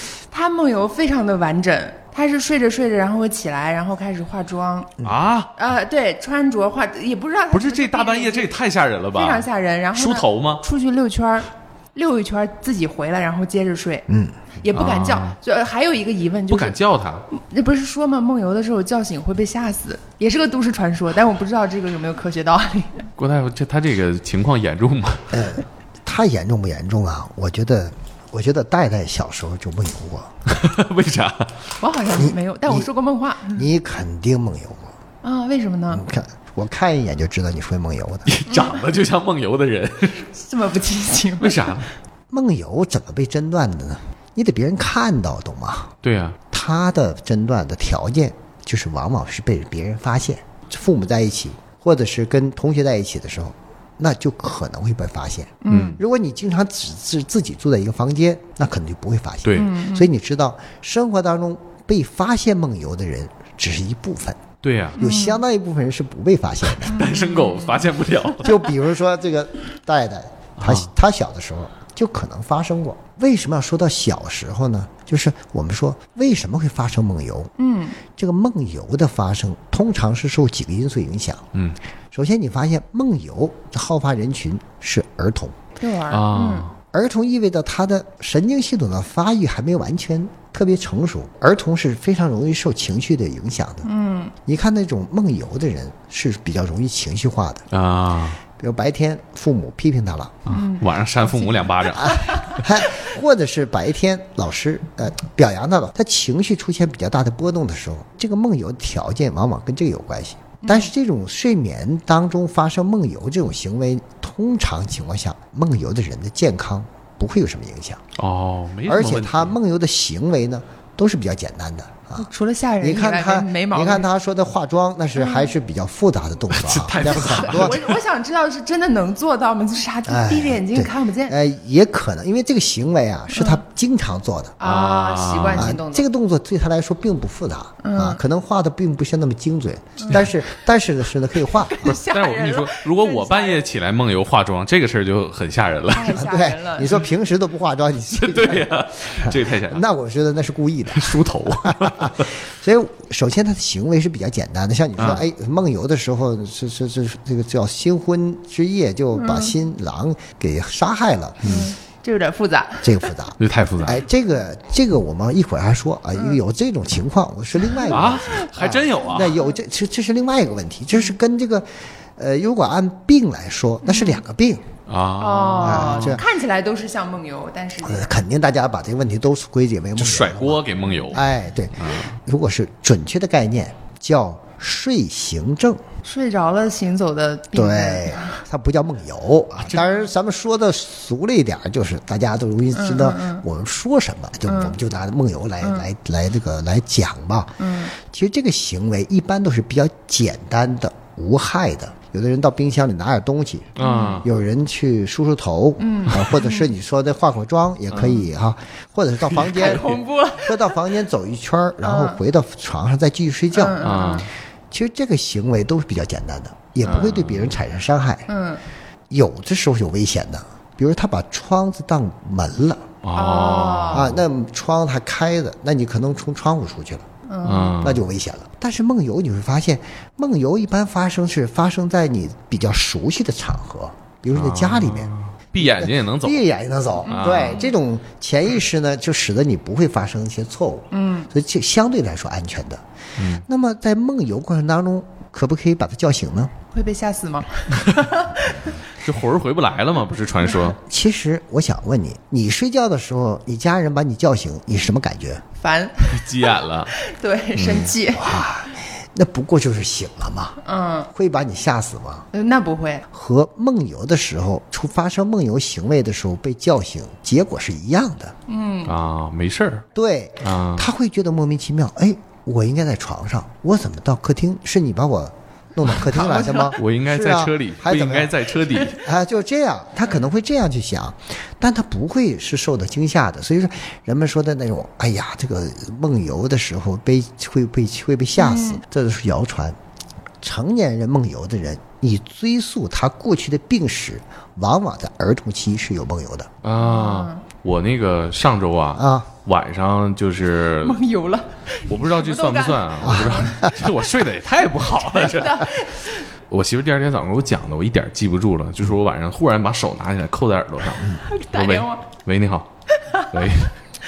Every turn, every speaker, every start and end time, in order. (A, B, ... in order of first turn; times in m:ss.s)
0:00.3-0:04.9 A
0:05.0-0:05.5 B
0:05.6-0:08.5 A
0:07.5-0:10.6 B
0:09.1-0:14.1 A
0:14.1-0:14.4 C
0:14.6-0:16.8 A
0:14.7-0:15.4 B
0:16.5-0:17.2 B
0:17.3-0:23.0 A
0:23.2-0:25.4 B
0:25.3-0:30.3 C
0:30.5-0:31.5 B
0:31.8-0:33.6 A
0:32.1-0:32.9 C
0:33.5-0:34.9 C
0:35.2-0:36.0 A
0:35.9-0:38.3 C
0:38.3-0:40.2 B
0:38.5-0:38.7 A
0:40.3-0:41.7 A
0:41.4-0:41.9 B
0:42.3-0:45.9 C
0:46.0-0:46.4 B
0:46.5-1:04.4 C
0:55.6-0:56.0 A
0:55.7-0:56.0 B
0:59.4-0:59.7 B
0:59.5-1:00.1 A
1:04.6-1:05.0 B
1:05.0-1:07.0 C
1:05.0-1:05.4 A
1:06.6-1:08.7 B
1:06.9-1:07.9 A
1:08.4-1:17.5 C
1:10.6-1:10.9 B
1:17.6-1:18.0 A
1:18.2-1:21.5 C
1:22.1-1:25.6 C
1:25.8-1:26.7 A
1:26.1-1:26.7 B
1:26.9-1:33.9 C
1:33.8-1:34.3 A
1:34.4-1:37.6 C
1:37.7-1:38.4 B
1:38.6-1:40.5 C
1:40.4-1:42.6 B
1:40.5-1:42.6 A
1:42.0-1:58.0 C
1:50.6-1:50.9 A
1:58.2-1:59.5 B
1:58.8-2:02.3 C
2:02.2-2:04.0 A
2:02.8-2:07.8 C
2:05.2-2:05.5 A
2:06.5-2:07.9 B
2:07.0-2:11.4 A
2:10.1-2:14.6 C
2:13.3-2:13.6 A
2:14.6-2:16.0 A
2:14.6-2:15.8 B
2:15.5-2:21.9 C
2:17.8-2:18.2 A
2:20.0-2:20.3 A
2:21.6-2:23.6 A
2:21.8-2:26.2 B
2:25.9-2:27.0 A
2:26.0-2:41.6 C
2:28.1-2:29.8 B
2:30.9-2:32.3 B
2:35.0-2:35.2 B
2:39.2-2:39.5 A
2:41.4-2:41.7 B
2:41.4-2:43.1 A
2:42.8-2:54.6 C
2:43.4-2:44.0 B
2:47.8-2:49.4 B
2:53.8-2:54.2 A
2:54.9-2:56.2 B
2:55.2-2:58.2 A
2:55.6-2:56.2 C
2:57.8-3:05.8 C
3:00.0-3:02.1 B
3:06.0-3:08.4 A
3:07.5-3:34.2 C
3:09.6-3:09.9 B
3:12.7-3:13.4 A
3:14.5-3:14.8 A
3:15.6-3:15.9 A
3:17.6-3:17.9 A
3:23.8-3:24.3 B
3:23.8-3:24.2 A
3:25.8-3:26.7 A
3:27.9-3:28.2 B
3:29.3-3:29.9 B
3:29.4-3:30.8 A
3:31.8-3:32.2 A
3:33.5-3:34.3 A
3:33.8-3:34.3 B
3:34.7-3:38.3 C
3:36.8-3:37.6 B
3:38.3-3:38.6 A
3:39.1-3:42.9 C
3:43.0-3:44.2 B
3:43.1-3:44.1 A
3:43.9-3:47.0 C
3:47.3-3:47.8 A
3:47.4-3:48.0 B
3:47.8-4:02.8 C
3:54.3-3:56.4 B
3:57.0-3:57.7 A
3:57.1-3:57.6 B
4:00.9-4:01.3 A
4:03.2-4:03.4 B
4:03.4-4:06.5 C
4:06.7-4:08.7 A
4:09.0-4:10.8 B
4:10.8-4:15.4 C
4:15.6-4:18.4 A
4:16.1-4:16.9 B
4:17.5-4:17.9 B
4:18.1-4:20.6 C
4:20.6-4:21.1 A
4:21.1-4:22.3 C
4:22.3-4:23.0 A
4:23.1-4:28.3 C
4:28.5-4:28.9 A
4:28.8-4:29.9 B
4:29.9-4:38.4 C
4:30.4-4:30.9 B
4:36.0-4:36.8 A
4:36.7-4:39.0 B
4:39.0-4:49.8 C
4:48.4-4:48.8 A
4:50.4-4:56.5 C
4:56.6-5:01.0 B
4:56.8-4:57.4 A
4:59.0-4:59.3 C
5:00.8-5:03.6 A
5:01.9-5:05.9 B
5:03.0-5:03.8 C
5:05.2-5:06.2 A
5:06.5-5:12.7 B
5:11.2-5:12.0 A
5:13.2-5:13.7 B